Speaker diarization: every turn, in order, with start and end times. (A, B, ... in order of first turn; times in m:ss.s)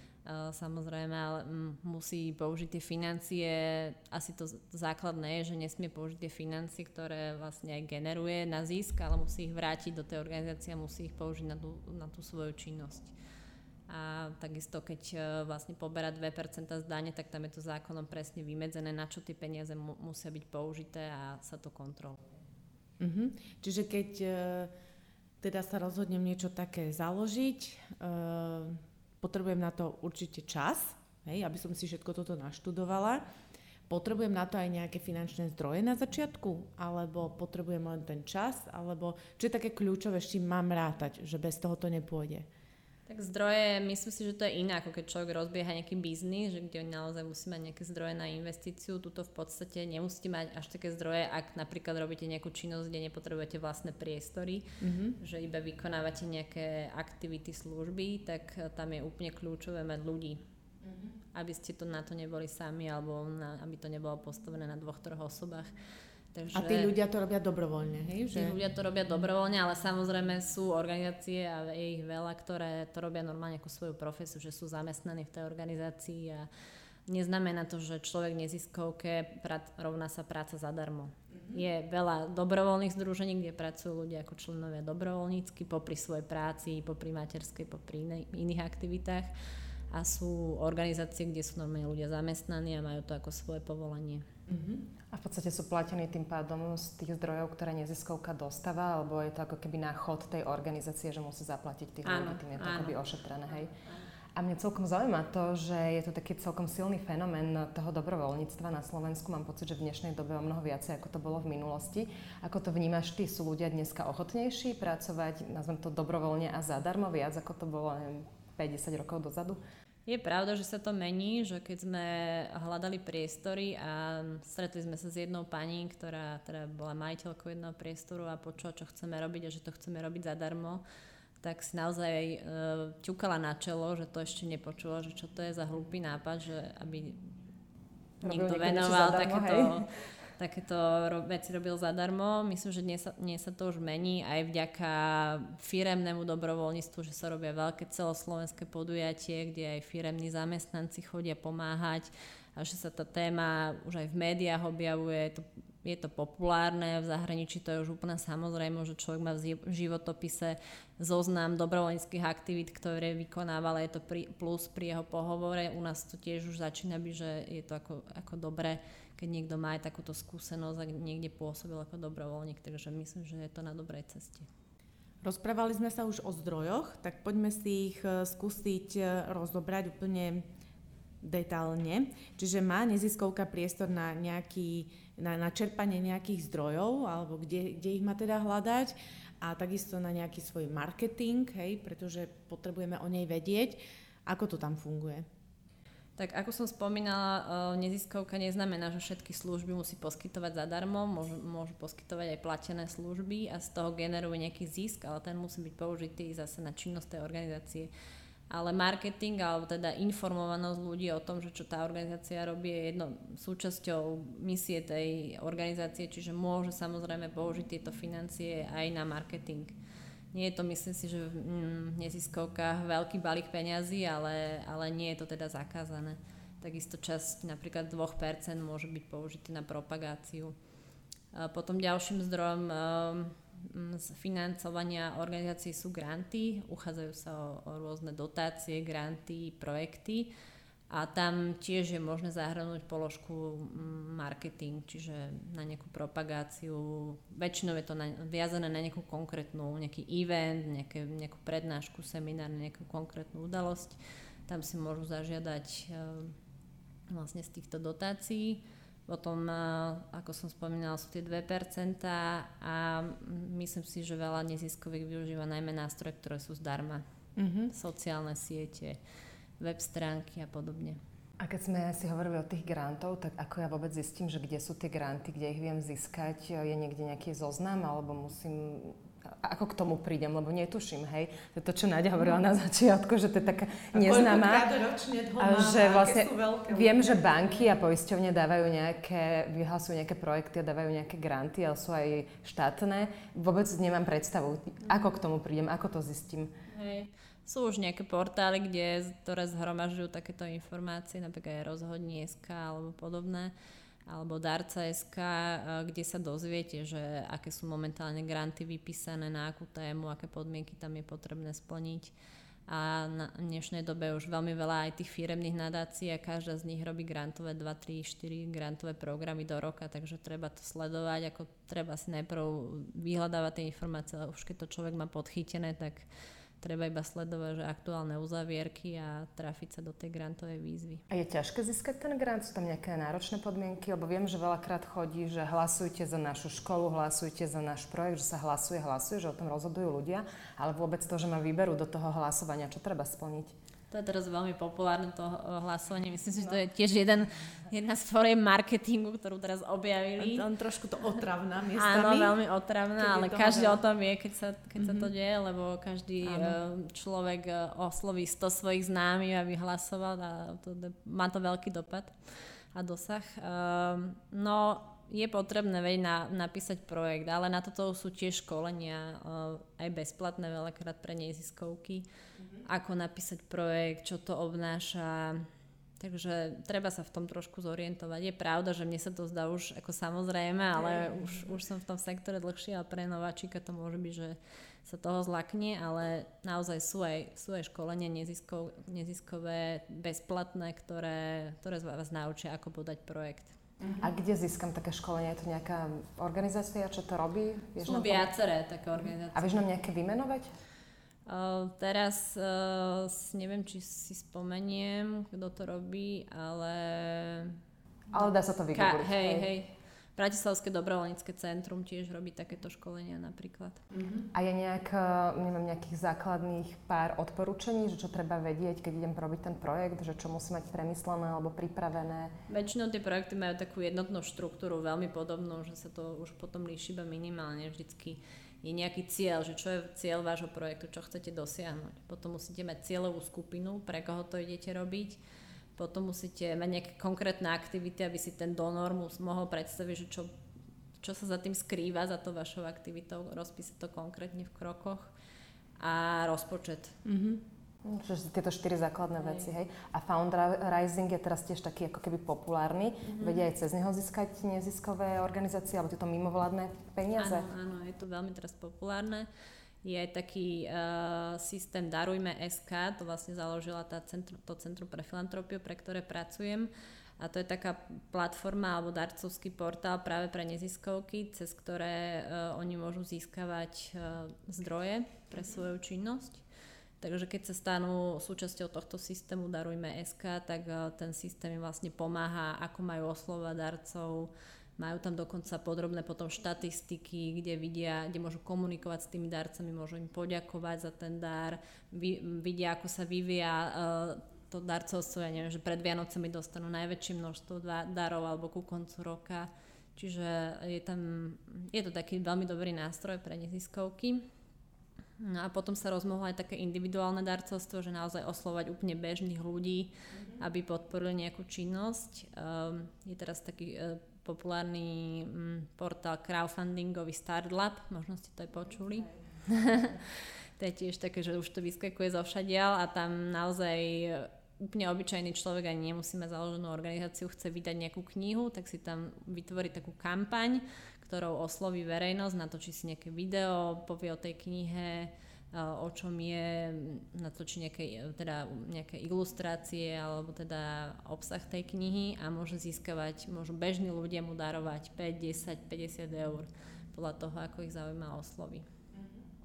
0:00.2-0:13.1 A
0:13.9-0:22.2 A
0:23.0-0:24.7 B
0:25.4-0:33.2 B
0:33.9-0:42.5 B
0:43.1-1:00.4 A
0:54.8-0:55.2 B
1:01.3-1:05.7 A
1:06.3-1:06.9 A
1:06.5-1:08.6 B
1:08.3-1:16.5 A
1:17.1-1:29.3 A
1:29.9-1:34.2 A
1:34.5-1:34.8 B
1:35.1-1:43.7 C
1:42.0-1:43.0 A
1:44.3-1:59.6 C
2:00.0-2:10.8 A
2:11.4-2:17.2 A
2:18.2-2:19.8 A
2:18.2-2:19.8 C
2:20.4-2:54.5 A
2:55.2-3:00.4 B
3:01.2-3:15.2 B
3:16.2-3:27.9 A
3:28.5-3:39.8 A
3:40.3-3:50.5 A
3:51.3-4:00.3 A
4:00.9-4:16.3 A
4:17.1-4:27.0 A
4:27.4-4:27.7 B
4:27.7-4:29.0 A
4:29.6-4:31.0 A
4:31.4-4:44.7 C
4:43.9-4:47.6 B
4:45.4-4:56.5 C
4:56.7-5:03.5 A
5:04.0-5:12.1 A
5:12.7-5:26.1 A
5:26.6-5:31.0 A
5:31.1-5:43.5 C
5:43.9-5:50.5 A
5:50.2-5:52.4 B
5:51.8-6:12.0 A
5:53.0-5:53.8 B
5:54.8-5:55.1 B
6:12.6-6:15.5 A
6:16.0-6:33.5 A
6:20.8-6:21.2 B
6:33.8-6:34.1 B
6:34.0-6:38.3 C
6:37.8-6:39.6 A
6:39.3-6:40.5 C
6:41.3-6:47.6 A
6:48.1-6:49.5 C
6:48.1-6:53.8 A
6:53.9-6:54.2 B
6:54.3-7:02.3 C
7:02.5-7:15.2 A
7:15.8-7:20.3 A
7:21.0-7:25.1 A
7:25.8-7:27.0 A
7:27.0-7:27.4 B
7:27.8-7:37.5 C
7:33.1-7:33.4 A
7:37.2-7:39.3 A
7:39.8-7:56.4 A
7:57.0-8:24.2 A
8:25.2-9:08.6 A